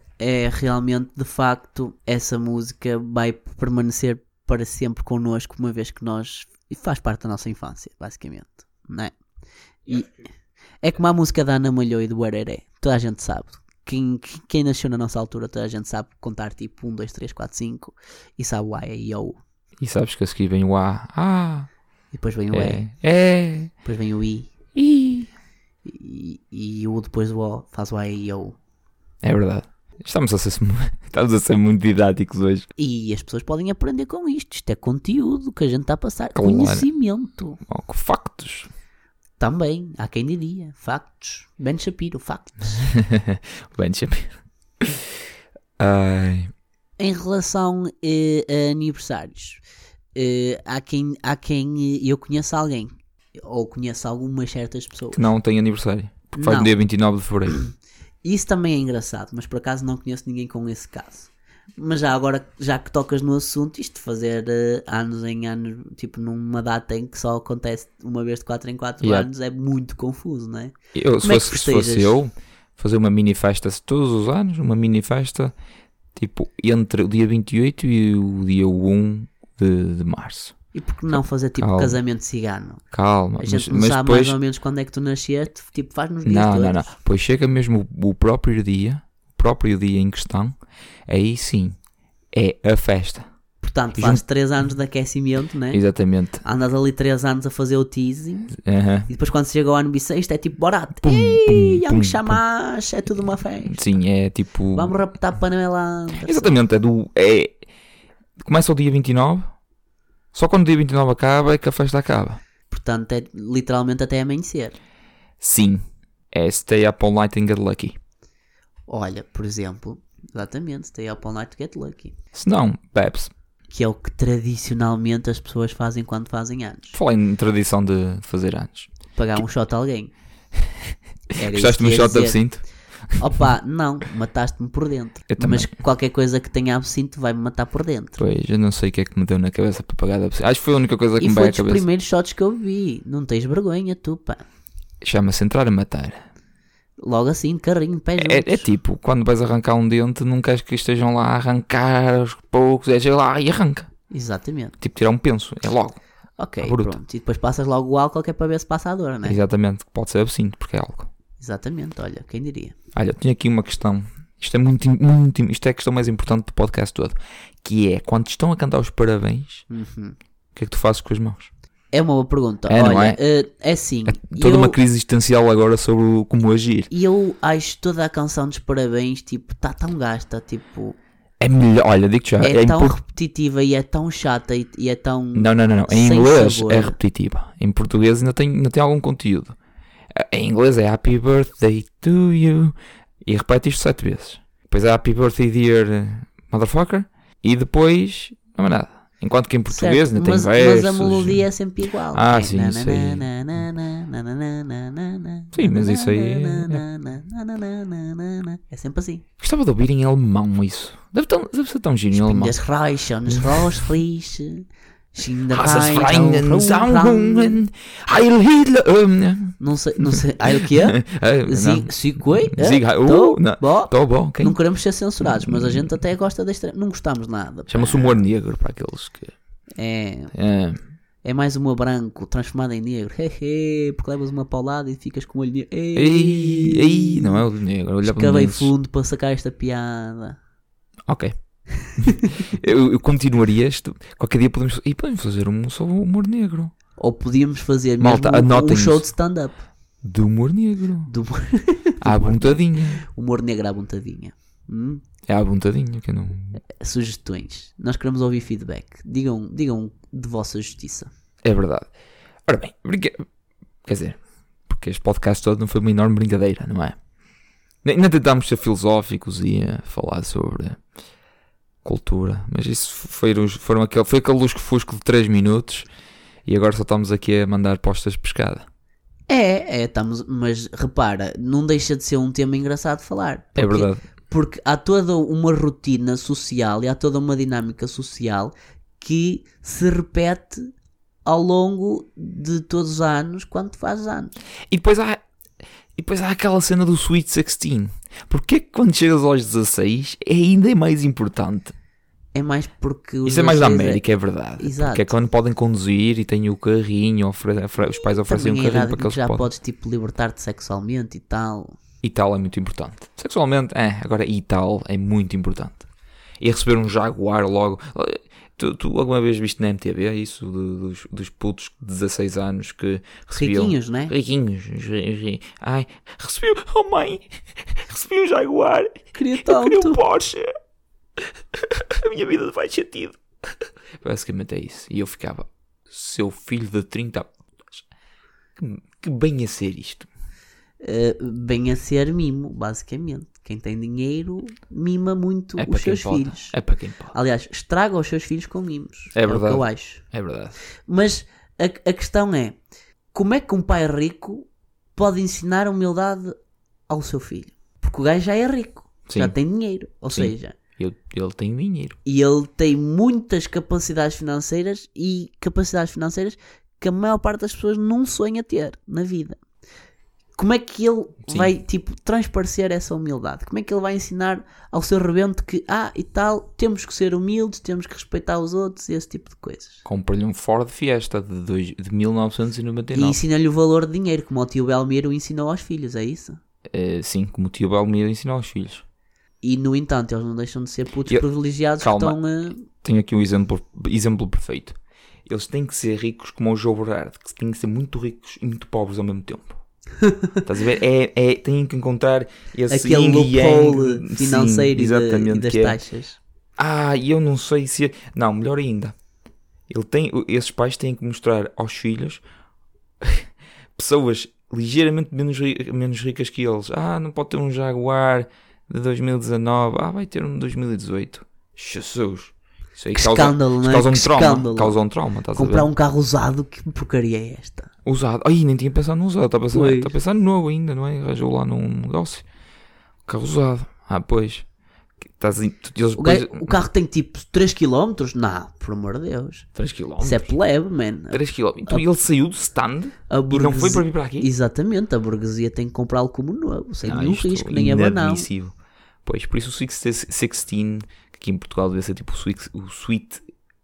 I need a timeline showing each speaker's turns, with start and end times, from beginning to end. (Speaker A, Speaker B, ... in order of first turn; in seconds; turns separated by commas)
Speaker A: 0.2-9.2, Speaker A: 9.9-10.1, Speaker A: 10.8-19.4, Speaker B: 19.8-21.7, Speaker A: 22.1-22.8, Speaker B: 22.5-23.7, Speaker A: 23.9-24.5, Speaker B: 24.8-25.3, Speaker A: 25.9-28.6, Speaker B: 29.2-32.7, Speaker A: 32.8-37.6, Speaker B: 36.4-36.9, Speaker B: 37.7-38.7, Speaker A: 39.4-42.8, Speaker B: 42.8-45.0, Speaker B: 45.8-46.5, Speaker A: 47.0-49.6, Speaker A: 50.1-55.2, Speaker B: 55.1-57.6, Speaker A: 56.3-56.8, Speaker A: 58.2-72.2, Speaker B: 69.0-69.3, Speaker B: 71.0-75.5, Speaker B: 76.2-80.5, Speaker A: 80.7-82.8, Speaker B: 81.6-82.0, Speaker B: 82.9-84.4, Speaker A: 83.4-86.8, Speaker B: 86.2-90.6, Speaker B: 91.1-91.8, Speaker B: 92.3-93.2, Speaker A: 93.6-95.8, Speaker B: 94.0-94.2, Speaker B: 95.7-96.4, Speaker A: 96.4-98.6, Speaker B: 98.6-99.1, Speaker A: 99.1-103.8, Speaker B: 101.0-102.4, Speaker B: 103.7-105.0, Speaker A: 104.7-106.6, Speaker B: 106.2-107.6, Speaker B: 108.4-109.5, Speaker B: 110.3-112.4, Speaker A: 112.7-114.8, Speaker B: 115.4-118.0, Speaker A: 118.9-122.2, Speaker B: 122.3-123.3, Speaker A: 123.7-127.0, Speaker B: 126.9-128.9, Speaker A: 129.2-130.1, Speaker A: 131.4-132.4, Speaker B: 131.5-132.6, Speaker A: 133.2-138.2, Speaker B: 135.3-135.7, Speaker B: 138.2-141.9, Speaker A: 141.2-144.4, Speaker B: 145.0-146.2, Speaker A: 147.0-148.7, Speaker B: 148.2-153.9, Speaker A: 154.1-154.8, Speaker B: 154.8-156.0, Speaker A: 156.4-159.4, Speaker B: 156.6-157.0, Speaker B: 159.2-161.1, Speaker A: 161.4-162.8, Speaker B: 162.9-169.7, Speaker A: 169.7-170.2, Speaker B: 170.6-171.5, Speaker A: 171.9-174.8, Speaker B: 172.7-173.2, Speaker B: 174.1-176.9, Speaker A: 176.9-181.0, Speaker B: 181.4-183.0, Speaker A: 182.4-186.9, Speaker B: 185.3-189.6, Speaker B: 190.2-201.4, Speaker A: 199.7-209.2, Speaker B: 202.1-203.3, Speaker B: 205.5-206.8, Speaker B: 209.4-212.5, Speaker A: 212.1-217.6, Speaker B: 213.4-213.8, Speaker B: 215.5-219.6, Speaker A: 219.6-228.2, Speaker B: 220.1-224.6, Speaker B: 225.2-225.9, Speaker B: 227.7-229.3, Speaker A: 229.8-230.3, Speaker B: 230.3-230.8, Speaker A: 231.2-237.4, Speaker B: 236.0-238.7, Speaker A: 238.0-240.4, Speaker B: 241.1-241.3, Speaker A: 241.8-242.4, Speaker B: 242.0-246.7, Speaker A: 247.0-249.6, Speaker B: 248.0-249.1, Speaker B: 250.0-251.1, Speaker A: 251.1-255.0, Speaker B: 252.0-253.0, Speaker B: 255.3-256.6, Speaker A: 256.8-261.1, Speaker B: 261.4-261.9, Speaker B: 262.5-263.2, Speaker B: 263.9-267.0, Speaker B: 267.8-270.8, Speaker B: 271.8-275.9, Speaker B: 276.5-278.7, Speaker A: 279.3-290.7, Speaker B: 283.6-284.0, Speaker A: 291.2-294.3, Speaker B: 294.7-295.2, Speaker B: 296.0-301.8, Speaker A: 302.3-304.0, Speaker B: 303.2-309.5, Speaker A: 304.6-305.1, Speaker A: 307.9-311.8, Speaker B: 312.0-315.9, Speaker B: 316.4-330.5, Speaker A: 323.4-324.1, Speaker A: 329.2-330.0, Speaker B: 331.6-333.2, Speaker B: 334.0-337.8, Speaker B: 338.6-340.1, Speaker A: 340.8-346.6, Speaker B: 345.6-347.1, Speaker A: 347.1-350.0, Speaker B: 349.1-350.6, Speaker A: 350.9-352.6, Speaker A: 353.1-356.4, Speaker A: 356.9-360.6, Speaker B: 359.1-359.3, Speaker B: 360.1-362.0, Speaker A: 362.1-369.4, Speaker A: 370.4-379.8, Speaker B: 379.9-383.2, Speaker A: 382.9-386.4, Speaker B: 386.7-388.8, Speaker A: 389.4-392.6, Speaker B: 391.8-392.2, Speaker B: 392.8-394.8, Speaker B: 395.3-399.6, Speaker A: 400.0-400.3, Speaker B: 400.4-405.8, Speaker A: 402.7-406.2, Speaker B: 406.6-408.9, Speaker B: 409.7-412.2, Speaker B: 413.0-425.7, Speaker A: 422.9-424.8, Speaker A: 425.3-427.7, Speaker B: 427.9-432.2, Speaker A: 429.5-429.9, Speaker B: 433.1-434.4, Speaker B: 435.2-436.5, Speaker A: 436.0-439.5, Speaker B: 439.6-440.3, Speaker A: 440.0-441.8, Speaker B: 441.1-444.3, Speaker A: 443.1-448.3, Speaker B: 446.8-453.2